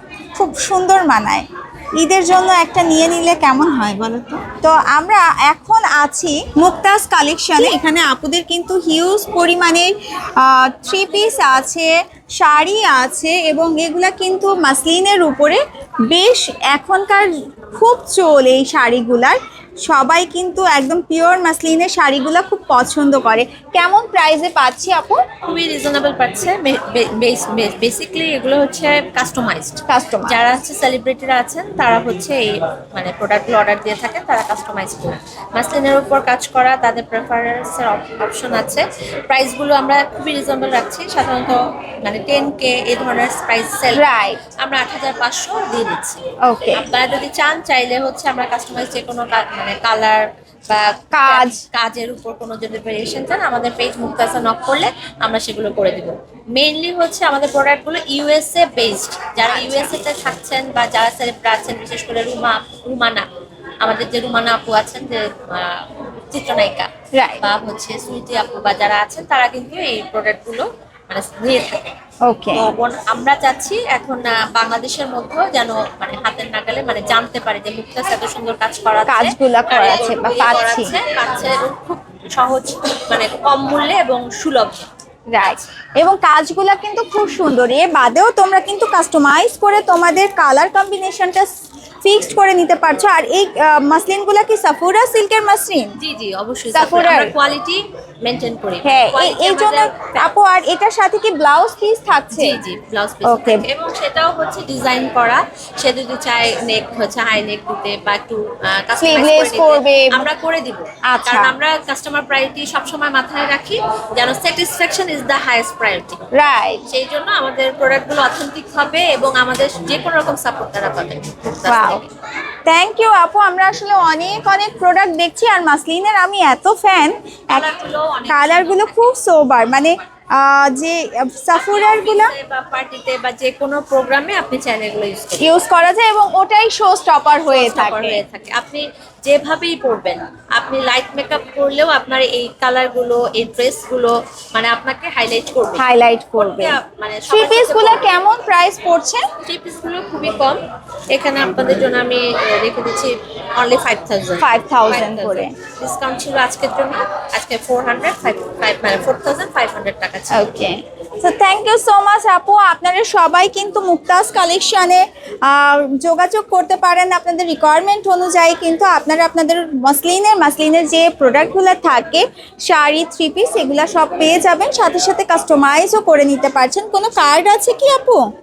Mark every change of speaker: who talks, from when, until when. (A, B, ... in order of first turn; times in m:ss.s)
0:00.4-0:01.4 A
0:02.0-0:25.2 A
0:10.9-0:11.6 B
0:25.4-0:44.0 B
0:29.9-0:30.4 A
0:44.0-0:44.4 A
0:44.6-0:46.2 B
0:46.5-0:46.9 A
0:46.8-1:03.2 B
0:51.1-0:51.6 A
0:59.4-1:00.0 A
1:03.8-1:06.9 B
1:07.2-1:07.4 A
1:07.4-1:11.9 B
1:12.3-1:12.7 A
1:12.6-1:24.9 B
1:19.1-1:21.0 A
1:25.3-1:31.5 A
1:32.0-1:36.0 A
1:36.0-1:40.3 B
1:36.7-1:37.4 A
1:38.8-1:42.6 A
1:42.3-1:56.2 B
1:43.2-1:43.7 A
1:49.0-1:50.3 A
1:51.1-1:51.5 A
1:56.3-1:56.8 A
1:56.9-2:02.1 B
2:01.7-2:02.0 A
2:02.7-2:07.7 A
2:07.5-2:09.1 B
2:08.3-2:12.3 A
2:11.5-2:15.5 B
2:15.4-2:18.2 A
2:17.5-2:28.1 B
2:25.8-2:29.2 A
2:29.5-2:40.5 B
2:34.4-2:35.5 A
2:40.3-2:58.2 A